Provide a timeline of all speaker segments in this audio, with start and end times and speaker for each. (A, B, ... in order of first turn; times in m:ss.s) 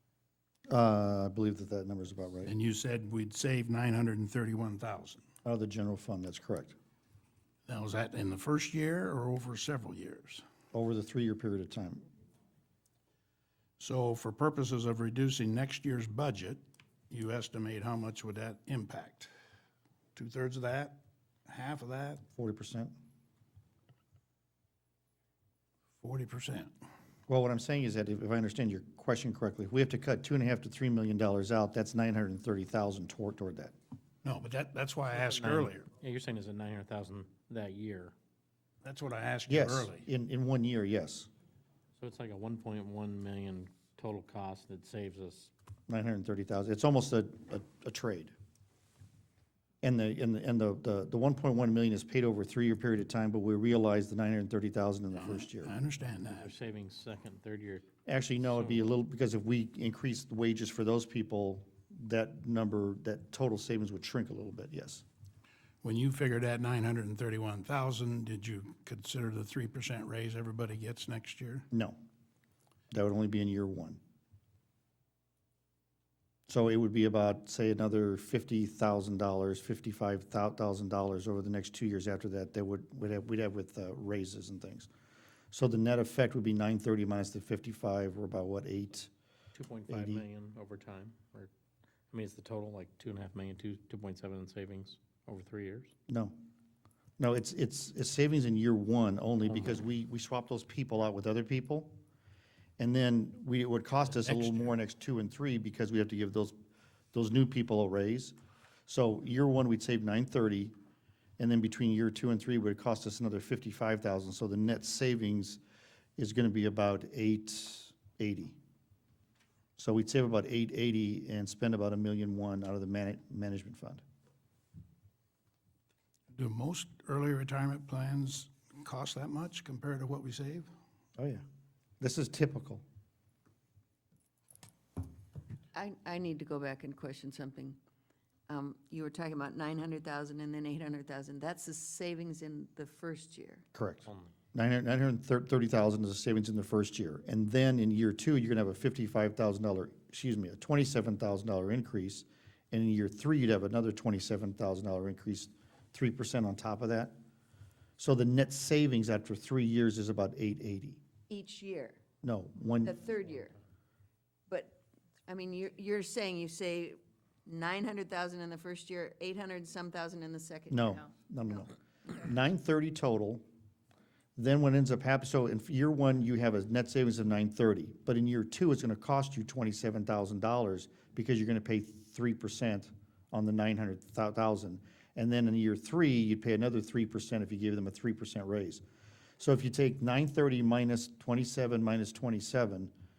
0:00.7-0:02.5 A
0:02.4-0:05.2 B
0:05.4-0:06.8 A
0:07.7-0:10.4 B
0:10.7-0:12.1 A
0:13.8-0:19.3 B
0:20.2-0:22.2 B
0:22.4-0:22.9 A
0:26.0-0:26.7 B
0:27.3-0:33.7 A
0:34.2-0:35.9 B
0:35.1-0:38.1 C
0:38.8-0:40.0 B
0:39.5-0:41.3 A
0:42.0-0:45.5 C
0:45.9-0:48.3 A
0:49.8-0:55.7 A
0:55.2-0:56.5 B
0:56.3-0:57.8 C
0:58.1-1:05.0 A
0:58.4-0:58.8 C
1:05.8-1:11.7 B
1:11.7-1:12.0 A
1:12.9-1:14.0 A
1:16.5-1:24.9 A
1:25.5-1:29.1 A
1:29.5-1:31.5 C
1:29.9-1:30.2 A
1:32.1-1:35.9 C
1:36.1-1:36.3 A
1:37.2-1:42.0 A
1:39.5-1:39.8 C
1:42.8-1:46.6 A
1:44.3-1:44.7 B
1:47.1-1:48.4 A
1:48.9-1:50.7 A
1:51.4-1:55.6 A
1:56.2-1:58.6 A
1:59.8-2:04.0 A
2:06.3-2:10.7 B
2:11.2-2:11.4 A
2:12.0-2:12.8 A
2:15.7-2:17.8 D
2:18.5-2:23.6 D
2:23.7-2:37.1 A
2:24.0-2:24.3 C
2:38.0-2:41.0 A
2:41.3-2:42.0 D
2:42.2-2:43.0 A
2:42.8-2:43.6 D
2:44.5-2:51.0 D
2:50.7-2:53.4 A
2:54.4-3:08.8 A
3:09.4-3:12.9 A